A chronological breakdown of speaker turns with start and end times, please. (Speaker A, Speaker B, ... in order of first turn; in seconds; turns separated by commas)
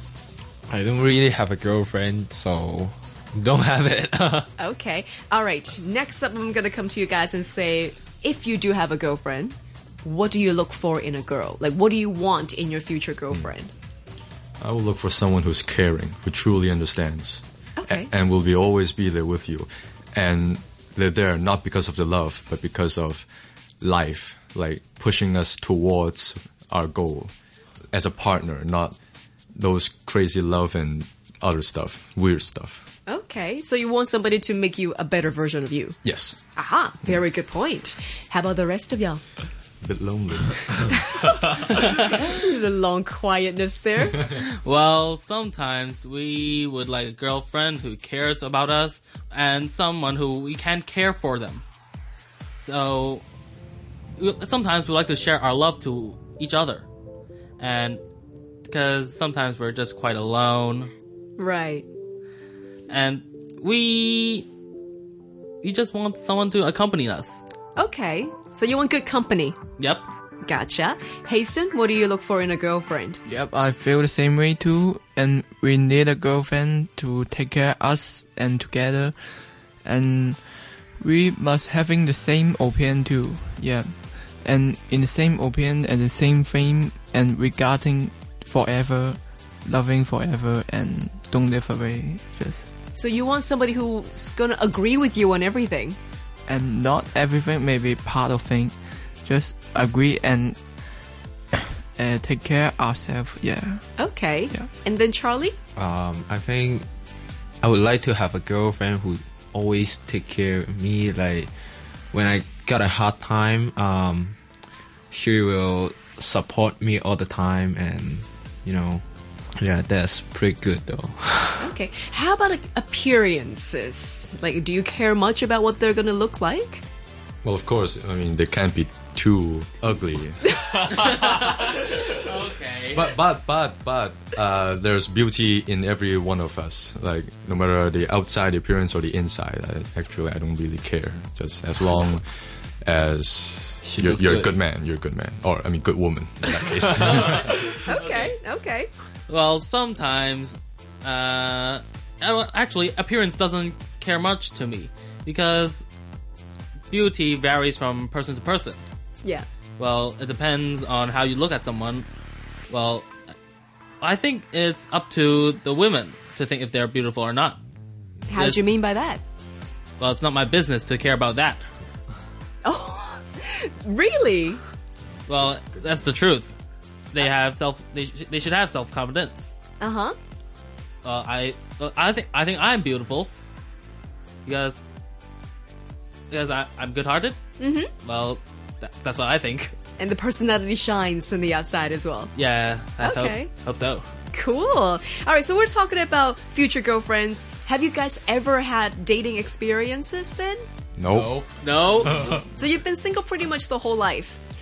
Speaker A: 0.7-4.5, Speaker B: 4.6-13.7, Speaker C: 14.6-23.2, Speaker B: 17.8-18.1, Speaker C: 23.8-27.3, Speaker C: 27.9-28.9, Speaker C: 29.6-32.9, Speaker B: 33.1-36.0, Speaker C: 36.0-36.4, Speaker B: 36.5-39.2, Speaker C: 39.8-41.1, Speaker B: 40.9-41.4, Speaker B: 42.1-44.2, Speaker D: 44.3-51.6, Speaker D: 52.6-53.2, Speaker D: 54.2-56.9, Speaker D: 57.6-58.0, Speaker D: 58.7-60.9, Speaker B: 61.4-61.9, Speaker D: 62.9-64.5, Speaker D: 65.6-67.4, Speaker B: 67.8-69.6, Speaker D: 69.8-70.1, Speaker B: 70.5-73.2, Speaker E: 73.2-79.2, Speaker E: 79.8-92.7, Speaker B: 92.9-96.0, Speaker E: 96.5-100.6, Speaker E: 102.0-104.7, Speaker B: 104.0-105.5, Speaker A: 105.8-106.8, Speaker A: 107.6-111.5, Speaker A: 112.1-114.4, Speaker A: 115.1-119.0, Speaker A: 119.6-121.7, Speaker B: 121.6-126.8, Speaker C: 127.4-130.6, Speaker D: 130.9-133.1, Speaker C: 132.9-147.7, Speaker A: 143.8-144.5, Speaker D: 147.0-148.3, Speaker B: 147.8-148.9, Speaker D: 149.3-155.8, Speaker D: 156.9-158.8, Speaker D: 159.8-162.1, Speaker D: 162.7-163.1, Speaker D: 164.0-167.6, Speaker B: 168.3-169.2, Speaker D: 170.0-171.6, Speaker B: 172.6-174.6, Speaker D: 175.3-176.5, Speaker D: 177.1-179.5, Speaker B: 179.8-180.2, Speaker D: 181.0-183.3, Speaker D: 184.4-184.8, Speaker D: 186.3-187.4, Speaker B: 187.6-187.9, Speaker D: 188.0-189.8, Speaker B: 190.0-192.3, Speaker D: 192.3-194.1, Speaker B: 193.0-193.5, Speaker B: 194.3-200.6, Speaker C: 201.0-201.3, Speaker A: 201.1-202.4, Speaker D: 201.6-202.2, Speaker B: 202.3-204.4